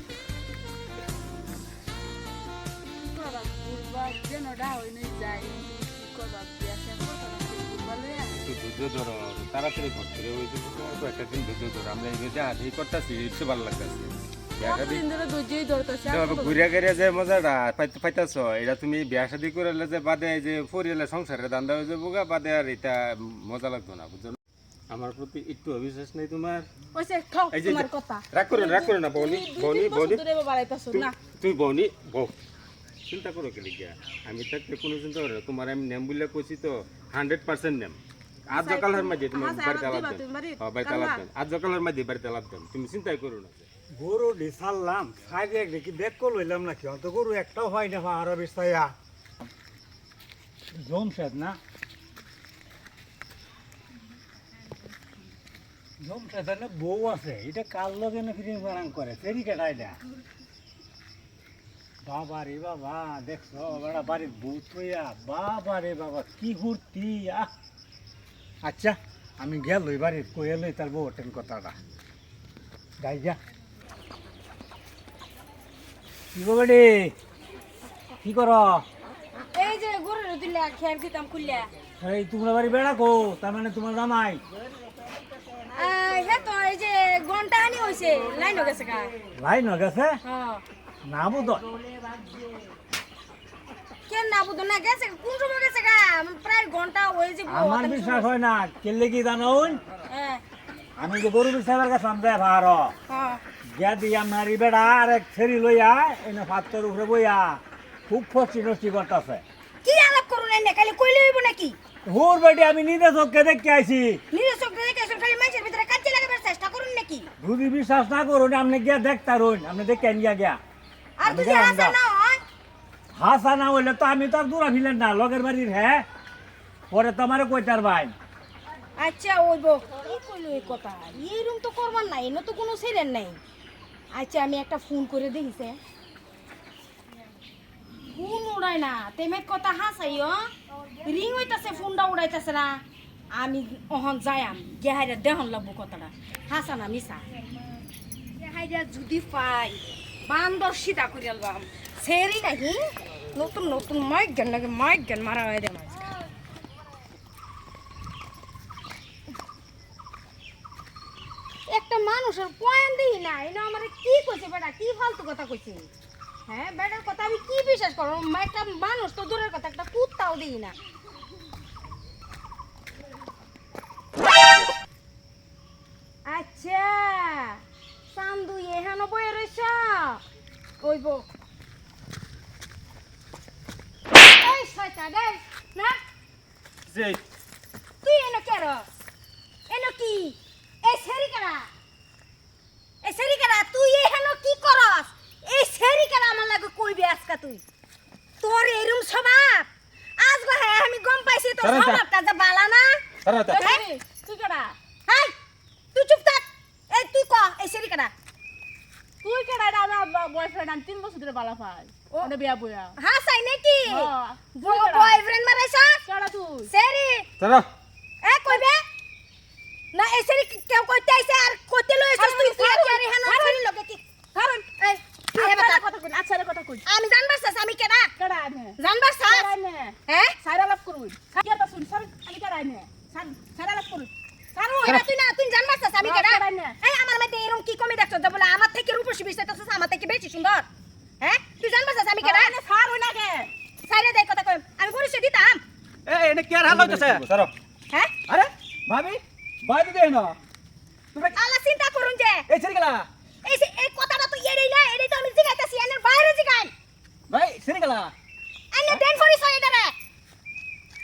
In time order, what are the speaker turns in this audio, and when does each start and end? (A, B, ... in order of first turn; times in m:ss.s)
0:03.0-0:08.4 A
0:08.4-0:15.1 B
0:14.6-0:16.7 A
0:16.1-0:24.4 B
0:24.9-0:26.7 B
0:26.9-0:31.0 A
0:27.5-0:30.3 B
0:27.6-0:28.2 C
0:30.9-0:32.4 B
0:33.1-0:43.7 B
0:38.5-0:41.1 A
0:43.9-0:48.9 D
0:50.7-0:51.6 D
0:56.0-1:00.0 D
1:02.0-1:07.5 D
1:08.6-1:11.8 D
1:13.0-1:13.4 D
1:16.3-1:17.2 D
1:18.2-1:18.8 D
1:19.5-1:21.7 E
1:22.0-1:24.4 D
1:25.7-1:29.1 E
1:29.4-1:30.2 D
1:30.2-1:30.6 E
1:31.0-1:31.7 D
1:34.1-1:38.3 E
1:37.5-1:39.8 D
1:40.1-1:40.4 E
1:41.0-1:42.9 D
1:43.1-1:43.4 E
1:43.7-1:49.4 D
1:49.8-1:51.8 E
1:52.0-1:54.2 D
1:54.3-1:57.3 E
1:57.4-2:00.6 D
2:01.2-2:02.4 E
2:01.2-2:02.0 D
2:03.1-2:06.0 D
2:06.9-2:08.1 D
2:09.0-2:13.4 E
2:14.1-2:15.8 E
2:18.1-2:20.5 E
2:21.0-2:22.8 E
2:23.3-2:27.2 E
2:28.4-2:36.1 E
2:41.7-2:45.9 E
2:46.5-2:50.8 E
2:56.3-2:57.6 E
2:58.1-3:00.2 E
3:00.8-3:01.3 E
3:04.2-3:06.0 E
3:06.9-3:07.2 B
3:08.0-3:08.9 E
3:09.7-3:11.7 E
3:13.0-3:17.6 E
3:18.4-3:23.0 E
3:21.6-3:22.0 B
3:23.2-3:23.7 B
3:23.5-3:24.8 A
3:23.6-3:23.8 E
3:25.1-3:25.3 E
3:25.9-3:28.1 E
3:29.2-3:33.0 A
3:33.0-3:36.0 E
3:33.9-3:35.2 A
3:36.1-3:36.7 A
3:36.7-3:37.3 E
3:37.4-3:37.7 B
3:38.2-3:38.8 E
3:39.9-3:44.0 E
3:42.2-3:43.6 A
3:44.3-3:44.7 A
3:44.8-3:45.8 E
3:45.4-3:46.8 A
3:46.9-3:48.1 E
3:48.2-3:54.9 A
3:48.8-3:49.5 E
3:50.1-3:50.4 E
3:54.8-4:00.7 E
3:56.0-3:56.8 A
4:01.2-4:02.5 E
4:02.2-4:03.5 A
4:03.9-4:05.6 E
4:06.1-4:07.2 C
4:06.7-4:07.5 B
4:08.3-4:10.4 C
4:11.3-4:12.5 E
4:12.5-4:13.1 C
4:13.4-4:16.7 E
4:17.3-4:18.1 C
4:18.7-4:20.0 E